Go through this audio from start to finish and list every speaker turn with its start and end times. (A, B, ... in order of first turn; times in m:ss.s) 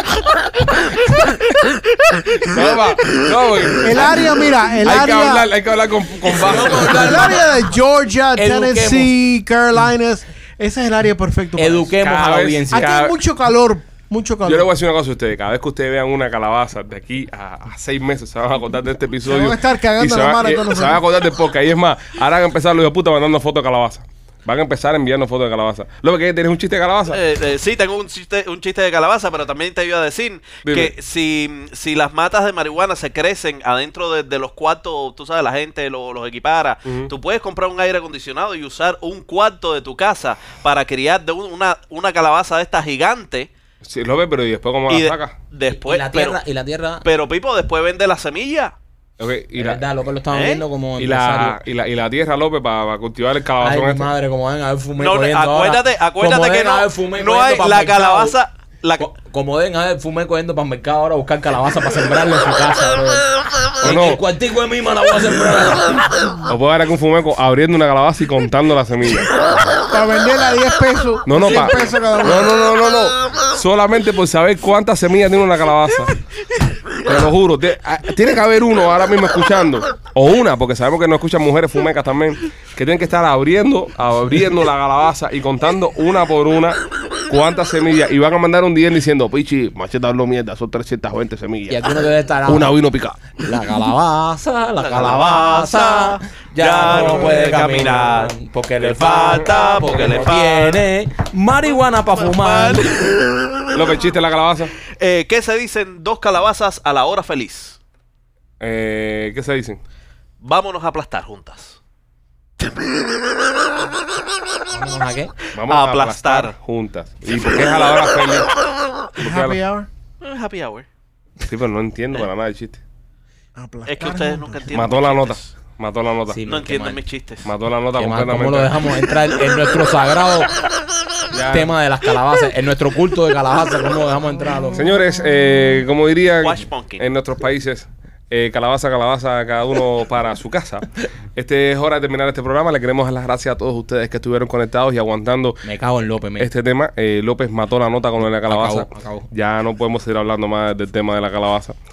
0:02.2-0:07.4 A
0:03.8-0:05.5 B
0:06.3-0:07.5 C
0:06.9-0:11.9 B
0:08.3-0:09.1 C
0:11.6-0:13.1 C
0:12.0-0:13.0 A
0:12.7-0:14.7 B
0:14.4-0:27.2 A
0:19.2-0:21.0 B
0:27.1-0:43.5 D
0:30.6-0:30.9 A
0:36.9-0:37.1 A
0:43.8-0:45.3 A
0:44.9-0:46.4 D
0:45.7-0:47.1 C
0:47.0-0:48.7 D
0:49.2-0:49.8 A
0:49.6-0:51.6 C
0:50.3-0:50.6 D
0:51.0-0:54.1 A
0:53.6-0:58.4 C
0:55.0-0:59.1 D
0:59.0-1:03.3 C
1:03.8-1:06.3 C
1:03.8-1:04.2 A
1:06.5-1:09.3 A
1:09.9-1:12.6 B
1:11.2-1:16.1 A
1:17.0-1:33.4 A
1:31.7-1:32.7 C
1:33.4-1:43.0 C
1:34.8-1:40.9 D
1:41.9-1:43.2 D
1:43.7-1:44.7 A
1:44.9-1:47.8 D
1:48.6-1:49.8 A
1:50.4-1:51.8 D
1:54.7-1:55.3 C
1:55.5-1:58.5 A
1:55.7-1:56.5 D
1:59.2-1:59.6 A
1:59.2-1:59.9 B
2:00.2-2:00.9 D
2:01.4-2:02.8 A
2:03.6-2:04.6 B
2:03.9-2:05.5 D
2:04.7-2:06.4 A
2:06.3-2:07.0 C
2:06.4-2:07.5 D
2:07.4-2:08.7 A
2:08.0-2:10.6 C
2:11.3-2:11.7 A
2:11.5-2:14.9 C
2:14.7-2:25.6 A
2:16.4-2:17.0 D
2:25.6-2:26.5 C
2:26.4-2:31.7 A
2:28.4-2:29.3 C